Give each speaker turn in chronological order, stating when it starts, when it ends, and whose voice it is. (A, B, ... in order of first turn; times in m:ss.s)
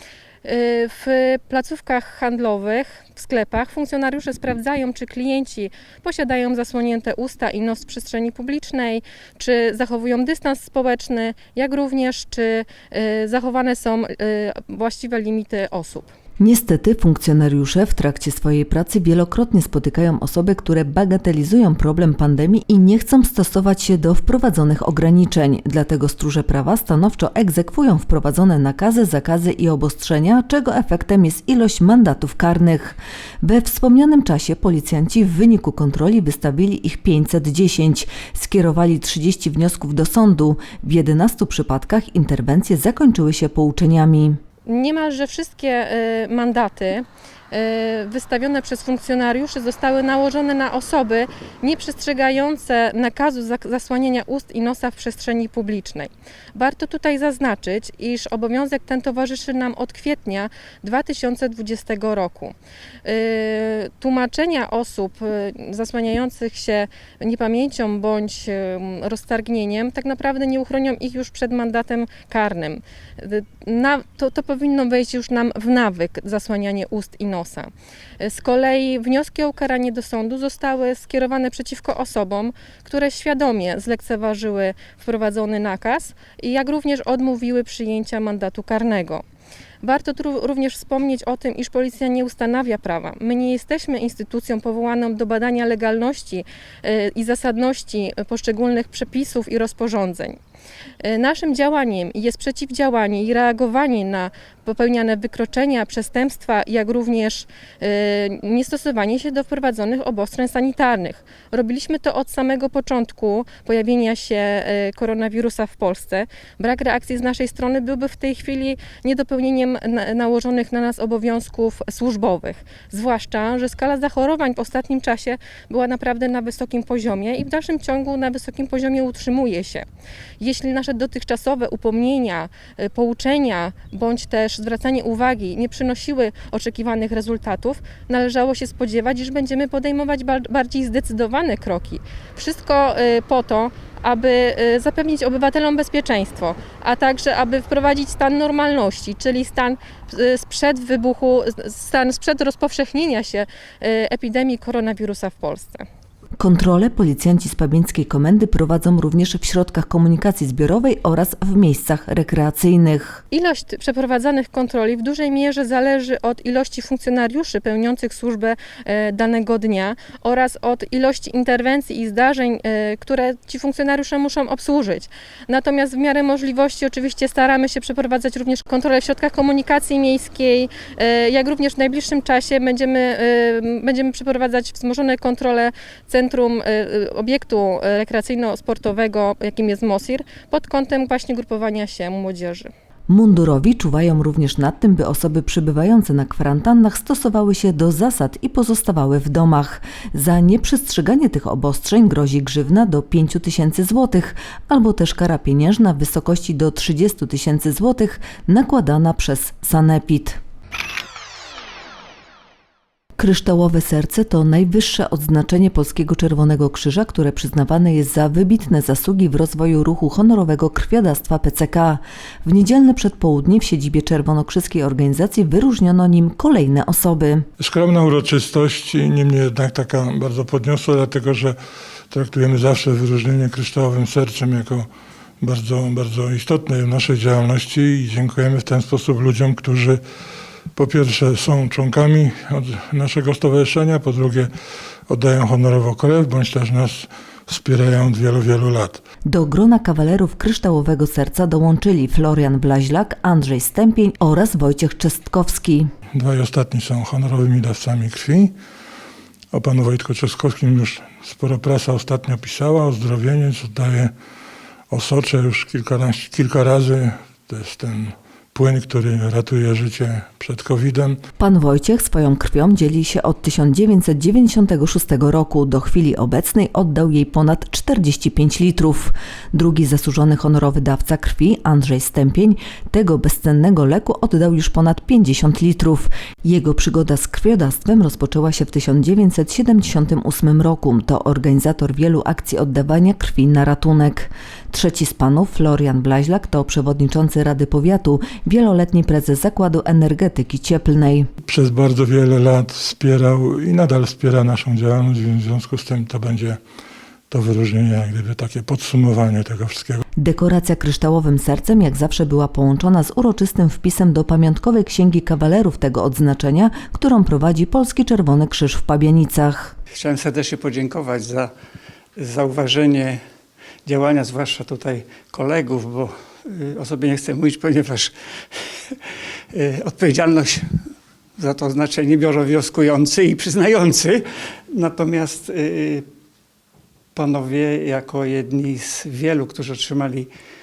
0:00.4-0:16.1 A
0:16.4-0:44.4 B
0:44.7-1:29.2 A
1:29.8-1:40.4 A
1:41.0-2:09.8 A
2:10.4-2:35.8 A
2:36.4-2:43.2 B
2:43.3-3:12.7 A
3:13.1-3:30.4 B
3:33.2-3:47.5 B
3:47.6-3:51.6 C
3:52.1-3:54.9 C
3:55.4-4:00.0 C
4:00.8-4:04.5 C
4:05.1-4:09.0 C
4:09.3-4:15.9 B
4:16.1-4:18.6 C
4:19.5-4:24.1 C
4:24.9-4:31.2 C
4:31.4-5:01.3 B
5:01.5-5:06.6 C
5:07.3-5:10.0 C
5:10.2-5:19.8 B
5:19.9-5:21.5 D
5:22.2-5:23.2 D
5:23.8-5:28.1 D
5:29.5-5:30.7 D
5:31.4-5:36.0 D
5:37.2-5:40.3 D